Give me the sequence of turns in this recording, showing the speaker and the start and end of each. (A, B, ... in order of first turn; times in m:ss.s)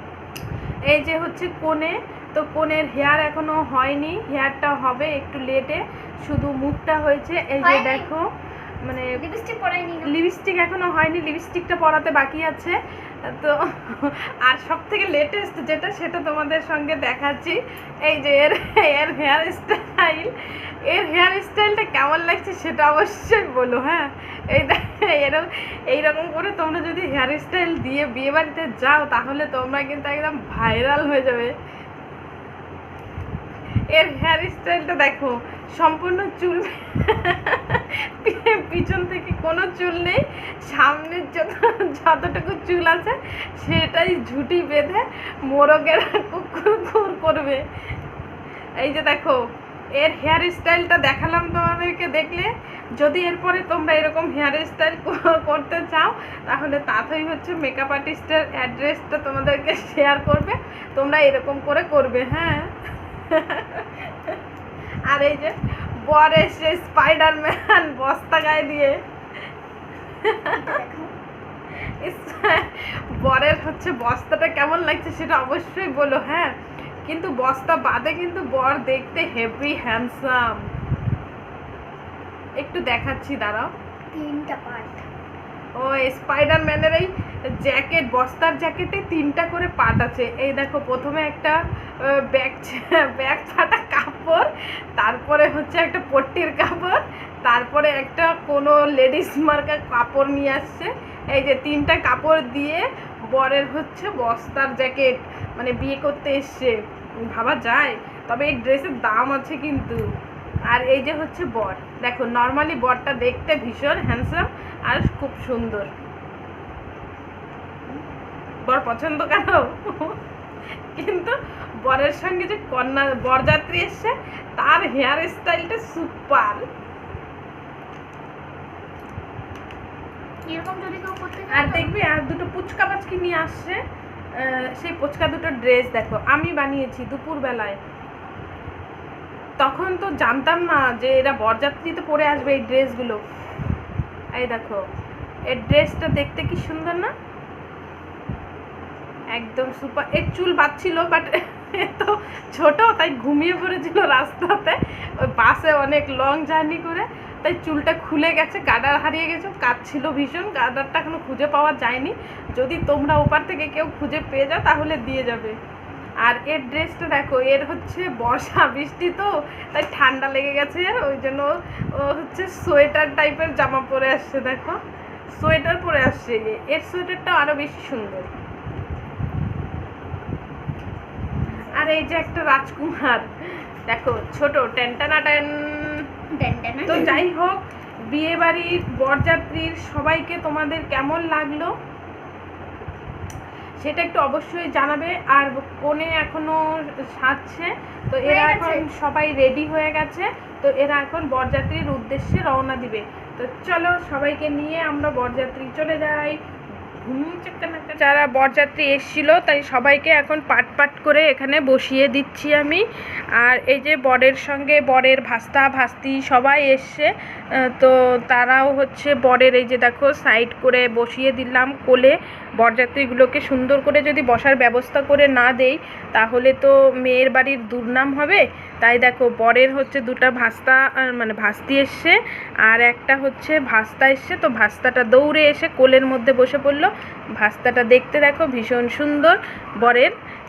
0:00.9-0:08.3 A
0:07.6-0:08.1 B
0:08.8-0:09.2 A
0:09.1-0:10.1 B
0:10.0-0:20.3 A
0:20.8-0:31.5 A
0:33.9-0:47.6 A
0:48.8-0:49.4 A
0:50.0-1:02.7 A
1:03.3-1:04.4 A
1:05.1-1:09.0 A
1:10.2-1:10.8 A
1:10.5-1:11.1 B
1:11.8-1:16.5 A
1:17.0-1:20.7 A
1:22.6-1:23.7 A
1:24.1-1:25.0 B
1:25.8-1:50.1 A
1:50.7-1:55.9 A
1:58.7-2:00.2 A
2:00.9-2:06.6 A
2:10.4-2:11.9 B
2:11.5-2:13.8 A
2:14.3-2:17.8 A
2:19.6-2:23.2 A
2:24.3-2:24.8 A
2:25.5-2:27.1 A
2:29.3-2:45.6 A
2:46.2-2:54.8 A
2:55.3-2:58.3 A
3:01.7-3:06.0 A
3:06.3-3:07.2 B
3:06.9-3:11.7 A
3:13.8-3:26.4 A
3:18.2-3:18.8 B
3:27.0-3:32.8 A
3:33.4-3:37.1 A
3:37.6-4:00.1 A